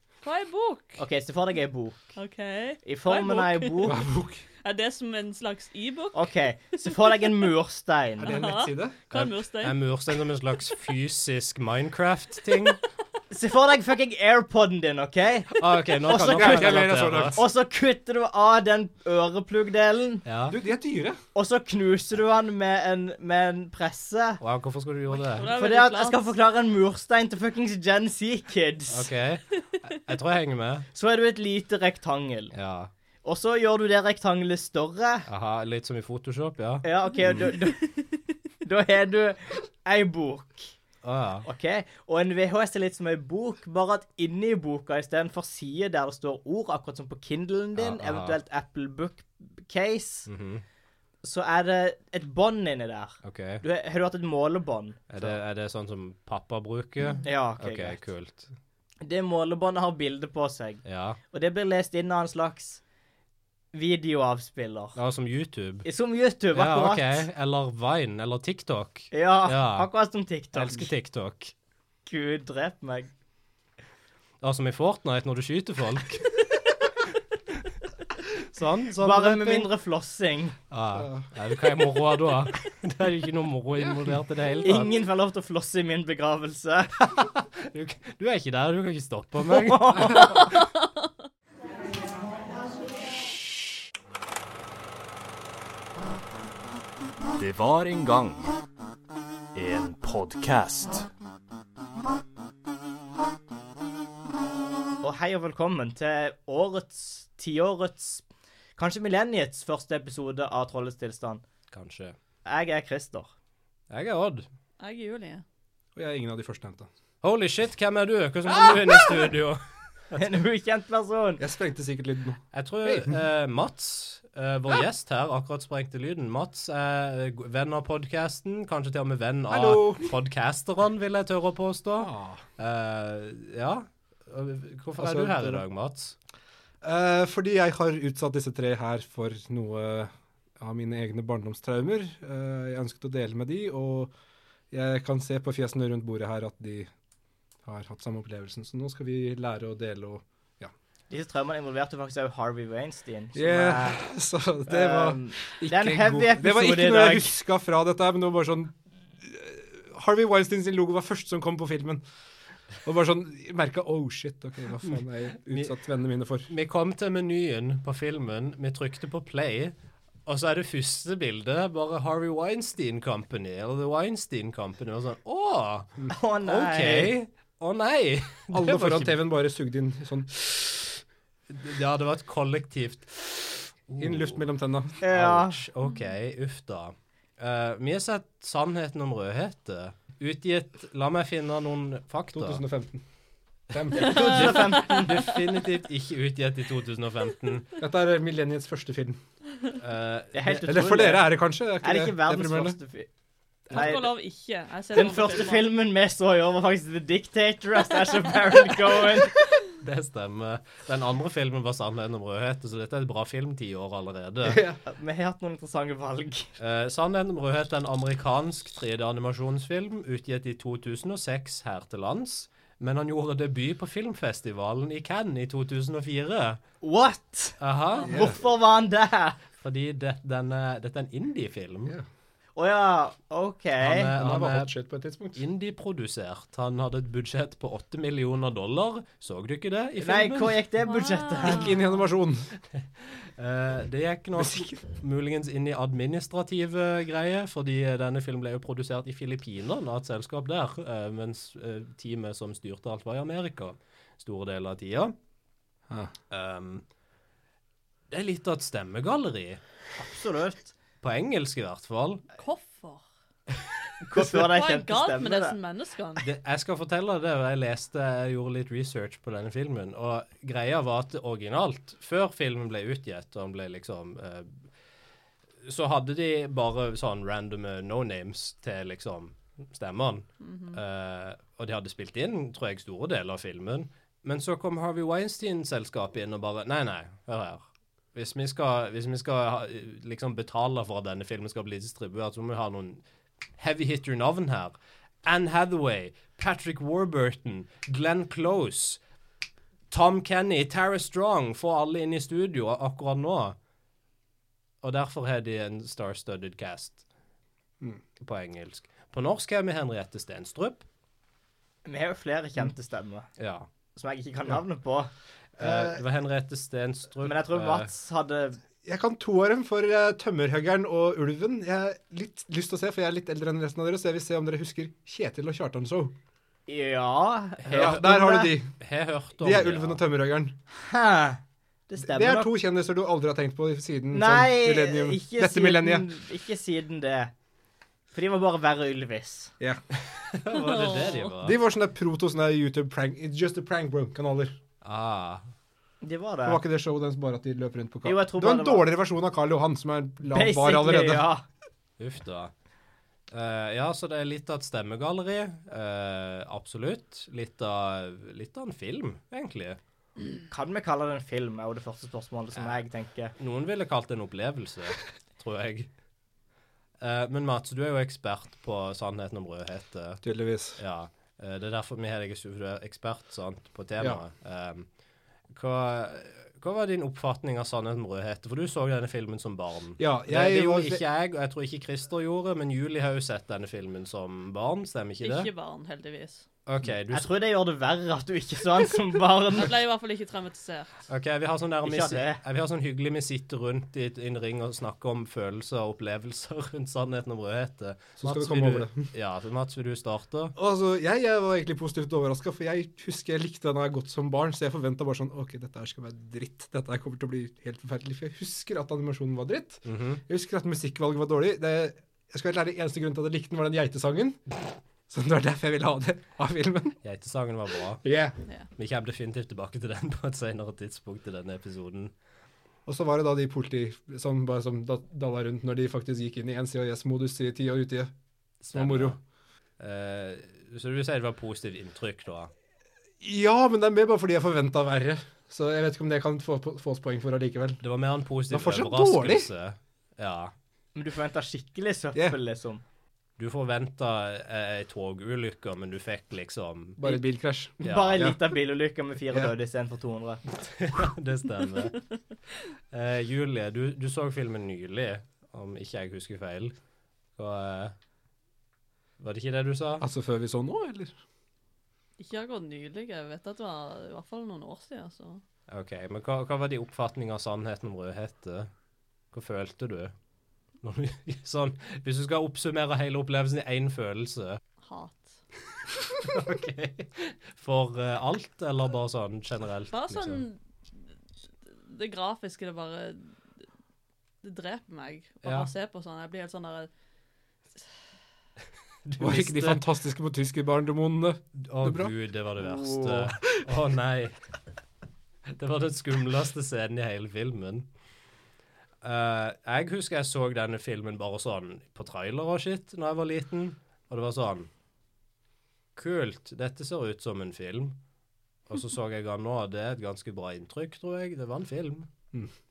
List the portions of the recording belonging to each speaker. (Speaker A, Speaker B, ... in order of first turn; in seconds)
Speaker A: 0.2-1.0, 2.2-4.0, 4.6-7.5, 8.2-10.2, 25.2-26.4, 114.8-115.4, 194.0-194.7, 203.7-205.7, 240.8-241.9, 262.4-263.0, 264.2-266.3, 280.4-280.8, 340.5-341.3, 385.2-386.4, 389.5-390.9, 462.2-465.4, 474.8-475.4, 479.9-480.6, 481.8-483.3, 484.4-486.9
Speaker B: 1.0-2.1, 2.8-4.0, 6.1-8.4, 13.3-20.2, 21.4-24.4, 25.5-29.1, 30.9-32.5, 33.2-35.2, 36.8-40.7, 41.5-50.3, 51.2-55.4, 57.2-58.0, 59.0-62.8, 63.7-65.0, 65.8-67.3, 69.1-70.9, 72.1-73.1, 79.0-80.6, 84.6-87.0, 89.5-90.6, 105.0-108.2, 108.8-111.4, 112.5-113.3, 120.1-121.4, 151.1-154.0, 154.7-157.3, 176.1-177.1, 185.0-185.6, 194.0-195.4, 200.3-203.1, 203.7-204.1, 204.9-209.5, 214.9-216.5, 226.8-229.4, 232.6-234.1, 240.0-241.8, 260.0-260.7, 264.0-265.6, 311.9-313.3, 313.9-316.0, 317.2-318.6, 326.7-328.6, 330.7-332.5, 334.1-337.3, 338.1-339.5, 346.0-346.6, 348.1-348.9, 350.3-351.4, 360.5-363.3, 387.1-389.7, 391.9-392.4, 440.9-442.8, 447.8-450.4, 492.6-493.4
Speaker C: 3.8-4.4, 8.2-9.0, 16.2-17.5, 20.5-21.2, 80.9-81.3, 83.8-84.2, 116.0-116.9, 121.4-123.2, 129.5-130.1, 132.0-132.4, 135.0-135.6, 136.8-144.1, 144.7-146.9, 147.7-150.7, 153.3-162.0, 162.8-166.5, 178.5-180.3, 184.0-185.0, 192.3-193.0, 193.7-194.7, 197.8-199.2, 200.6-202.8, 214.4-214.8, 228.1-228.4, 234.1-235.4, 241.4-242.5, 244.4-244.8, 318.8-326.1, 327.7-328.8, 329.4-330.6, 332.0-336.1, 341.4-344.6, 346.4-351.3, 370.2-370.8, 380.0-381.0, 398.2-399.1, 400.6-417.0, 418.0-418.4, 422.9-428.1, 428.7-429.2, 433.2-437.8, 438.5-439.5, 447.0-448.4, 449.3-449.5, 460.0-461.1, 489.2-492.1
Speaker D: 9.1-12.8, 15.6-17.4, 20.2-20.6, 24.4-25.5, 28.9-30.9, 32.5-32.9, 35.3-37.5, 41.0-41.5, 47.8-48.4, 50.3-50.6, 53.2-53.6, 55.1-58.5, 60.9-61.2, 65.0-65.9, 66.5-69.9, 70.5-71.5, 74.4-76.5, 78.2-79.7, 80.7-84.9, 87.0-90.6, 111.7-112.2, 113.9-114.5, 117.2-120.2, 122.5-136.2, 164.8-165.7, 166.5-169.8, 170.3-179.2, 181.5-184.4, 185.1-192.6, 193.9-197.7, 199.8-200.8, 209.8-214.6, 216.6-226.6, 227.6-228.2, 229.6-232.0, 233.8-234.7, 235.3-240.6, 242.7-255.1, 256.3-256.9, 258.1-259.6, 261.0-262.2, 266.2-274.6, 275.6-293.0, 293.6-299.0, 299.9-303.6, 304.8-307.0, 308.2-310.9, 313.4-313.7, 315.6-317.9, 327.6-328.0, 328.8-330.0, 339.9-341.6, 344.8-345.5, 352.0-352.5, 353.3-359.8, 362.6-362.8, 363.4-365.9, 367.0-370.2, 370.8-374.9, 375.5-385.5, 386.7-387.3, 391.1-400.6, 409.9-410.2, 417.0-418.1, 418.8-422.1, 428.6-429.2, 429.8-432.5, 437.8-440.5, 443.4-447.0, 447.8-448.2, 450.6-452.0, 452.9-456.8, 457.4-457.9, 459.2-460.1, 465.7-468.7, 469.3-470.1, 470.8-474.6, 476.2-480.4, 485.4-485.7, 489.1-489.8, 491.6-494.4, 495.5-497.9, 499.0-504.7, 506.0-508.0, 508.7-512.1
Speaker E: 97.4-98.6, 99.5-101.1